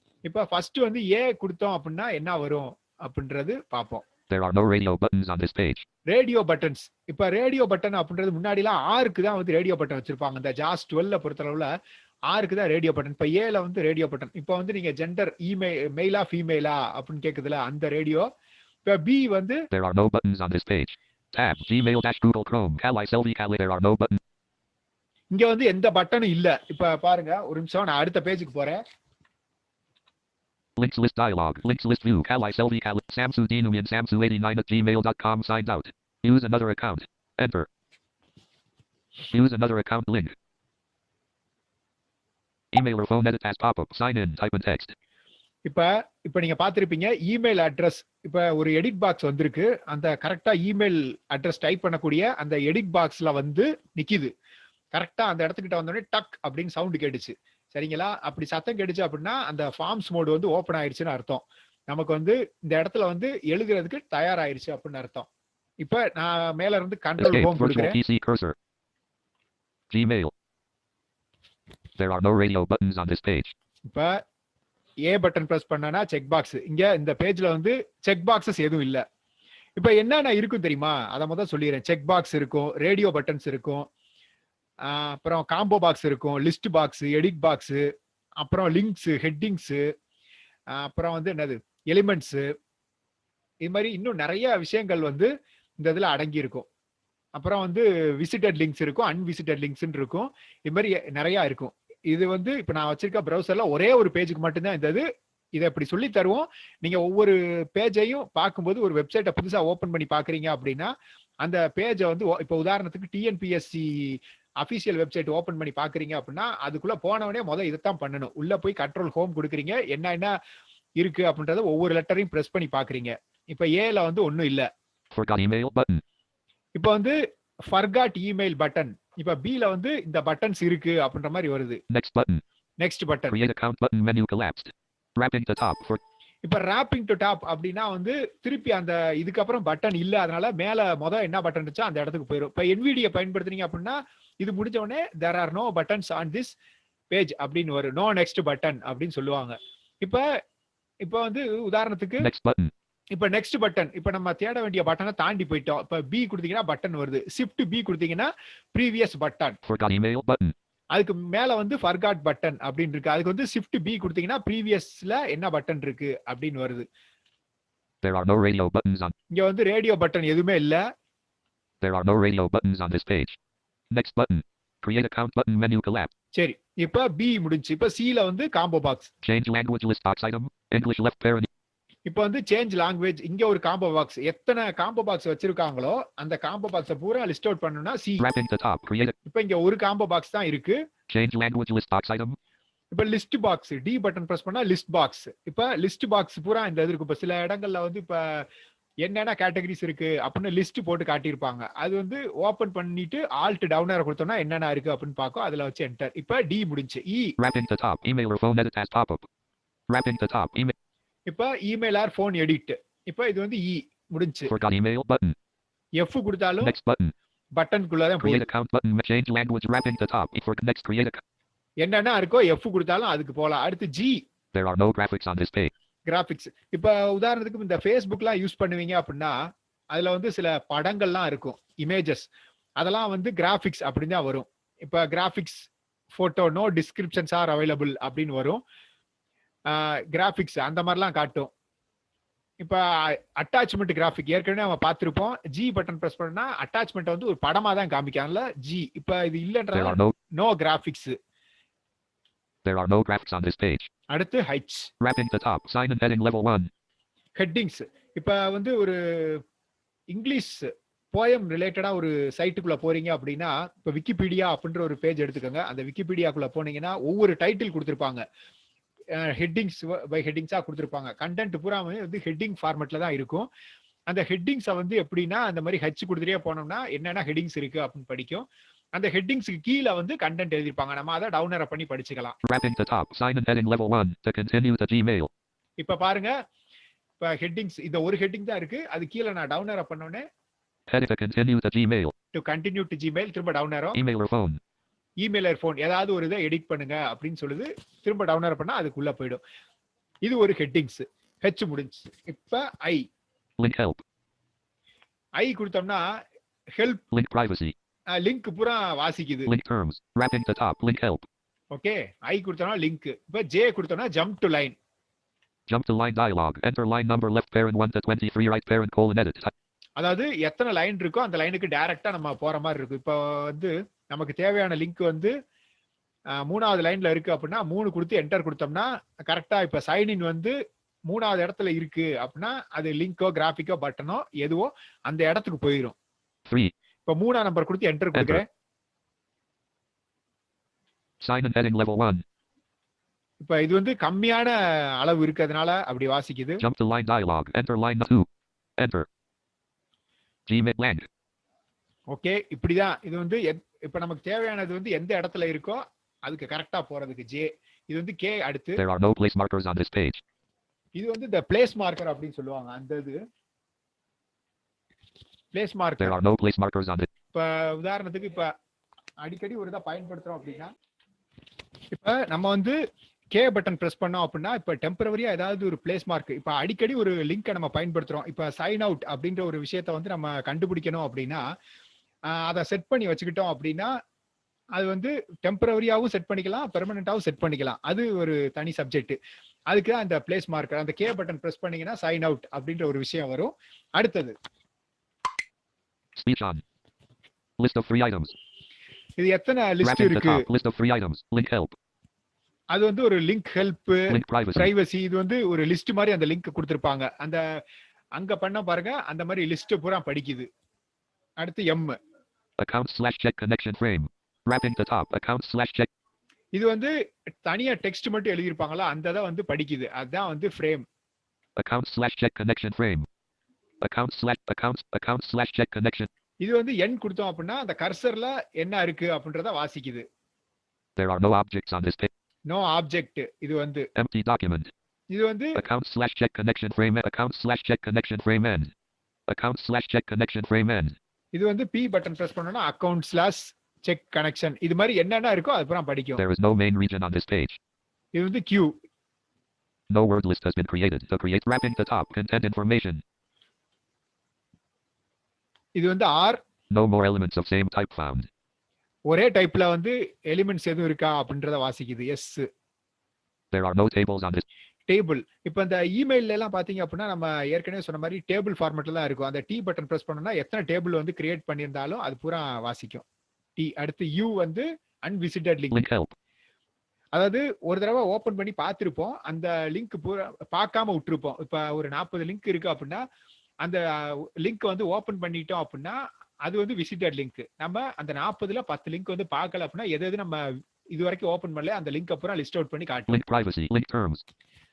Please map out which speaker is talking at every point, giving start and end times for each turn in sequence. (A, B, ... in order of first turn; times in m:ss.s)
0:00.2-0:04.0 A
0:04.3-0:05.8 B
0:06.1-0:11.7 A
0:12.3-0:18.3 A
0:18.8-0:19.6 A
0:19.7-0:24.2 B
0:25.3-0:28.8 A
0:30.8-0:37.7 B
0:39.3-0:40.4 B
0:42.7-0:44.9 B
0:45.6-0:54.3 A
0:54.9-1:05.3 A
1:05.8-1:08.0 A
1:07.2-1:08.6 B
1:09.9-1:10.3 B
1:12.0-1:13.5 B
1:13.9-1:14.2 A
1:15.1-1:19.0 A
1:19.8-1:23.9 A
1:24.9-1:27.8 A
1:28.4-1:29.8 A
1:30.8-1:32.4 A
1:33.6-1:35.3 A
1:35.8-1:36.7 A
1:37.4-1:45.0 A
1:45.6-1:50.9 A
1:51.4-2:00.3 A
2:01.0-2:04.7 A
2:05.1-2:06.0 B
2:06.8-2:07.2 A
2:07.7-2:11.8 A
2:11.9-2:12.4 B
2:12.8-2:13.4 A
2:13.3-2:16.0 B
2:16.4-2:26.5 A
2:27.1-2:30.2 A
2:31.0-2:32.3 A
2:32.2-2:32.7 B
2:33.1-2:39.6 A
2:39.7-2:40.5 B
2:40.9-2:46.8 A
2:48.0-2:49.1 B
2:49.3-2:50.8 A
2:51.8-2:53.4 B
2:53.9-2:56.1 B
2:56.4-2:59.1 A
2:59.2-3:01.5 B
3:02.1-3:08.2 A
3:08.2-3:09.2 B
3:09.3-3:10.8 A
3:11.1-3:12.4 B
3:12.9-3:18.5 A
3:19.0-3:27.3 A
3:27.4-3:29.3 B
3:29.9-3:30.7 B
3:31.3-3:34.5 A
3:34.5-3:35.4 B
3:36.0-3:36.8 A
3:36.6-3:37.1 B
3:37.6-3:38.5 A
3:38.2-3:41.2 B
3:41.8-3:44.2 A
3:44.5-3:45.7 B
3:46.1-3:49.3 A
3:49.9-3:58.6 A
3:59.7-4:01.5 A
4:02.6-4:11.2 A
4:09.7-4:10.1 B
4:12.6-4:13.9 B
4:14.1-4:14.9 A
4:15.0-4:16.7 B
4:17.4-4:19.4 A
4:20.1-4:28.2 A
4:29.2-4:33.5 A
4:34.1-4:42.4 A
4:42.5-4:45.3 B
4:45.8-4:46.3 A
4:47.2-4:50.2 A
4:50.9-4:52.1 B
4:52.3-4:54.0 A
4:54.0-4:54.6 B
4:55.2-4:59.4 A
5:00.2-5:03.0 A
5:03.6-5:04.0 B
5:05.4-5:06.0 A
5:06.8-5:07.0 A
5:07.1-5:07.7 B
5:08.1-5:09.5 A
5:09.5-5:11.3 B
5:11.7-5:14.8 A
5:15.7-5:19.5 B
5:20.0-5:25.3 A
5:26.4-5:30.5 A
5:31.1-5:36.0 A
5:36.5-5:36.7 B
5:37.1-5:38.4 A
5:38.2-5:38.4 B
5:41.2-5:42.2 B
5:43.4-5:46.6 A
5:46.6-5:48.3 B
5:48.8-5:49.1 B
5:50.5-5:51.1 B
5:52.1-5:58.8 A
5:58.8-6:00.2 B
6:01.0-6:03.2 A
6:05.5-6:06.2 A
6:06.0-6:07.1 B
6:07.3-6:08.5 A
6:09.2-6:10.7 A
6:11.9-6:12.8 A
6:13.3-6:21.4 A
6:22.3-6:23.9 A
6:24.8-6:29.2 A
6:29.7-6:34.3 A
6:36.2-6:36.6 B
6:37.6-6:38.3 B
6:39.2-6:40.4 A
6:39.8-6:41.8 B
6:42.7-6:47.4 A
6:44.1-6:44.7 B
6:48.2-6:50.5 A
6:51.4-6:51.9 A
6:52.6-6:55.9 B
6:56.5-6:56.9 A
6:57.4-7:00.8 A
7:01.6-7:03.1 B
7:03.8-7:06.1 B
7:06.4-7:10.0 A
7:11.0-7:12.1 B
7:12.5-7:13.9 A
7:14.0-7:14.7 B
7:15.1-7:15.6 A
7:15.6-7:18.7 B
7:19.3-7:21.0 B
7:21.3-7:26.2 A
7:26.2-7:27.6 B
7:28.1-7:28.8 A
7:29.9-7:33.0 B
7:35.8-7:36.4 A
7:36.7-7:38.3 B
7:39.1-7:42.4 A
7:43.5-7:44.4 B
7:44.9-7:53.0 A
7:53.6-7:55.8 A
7:55.7-7:56.1 B
7:57.1-8:03.0 A
8:03.6-8:13.2 A
8:13.1-8:14.2 B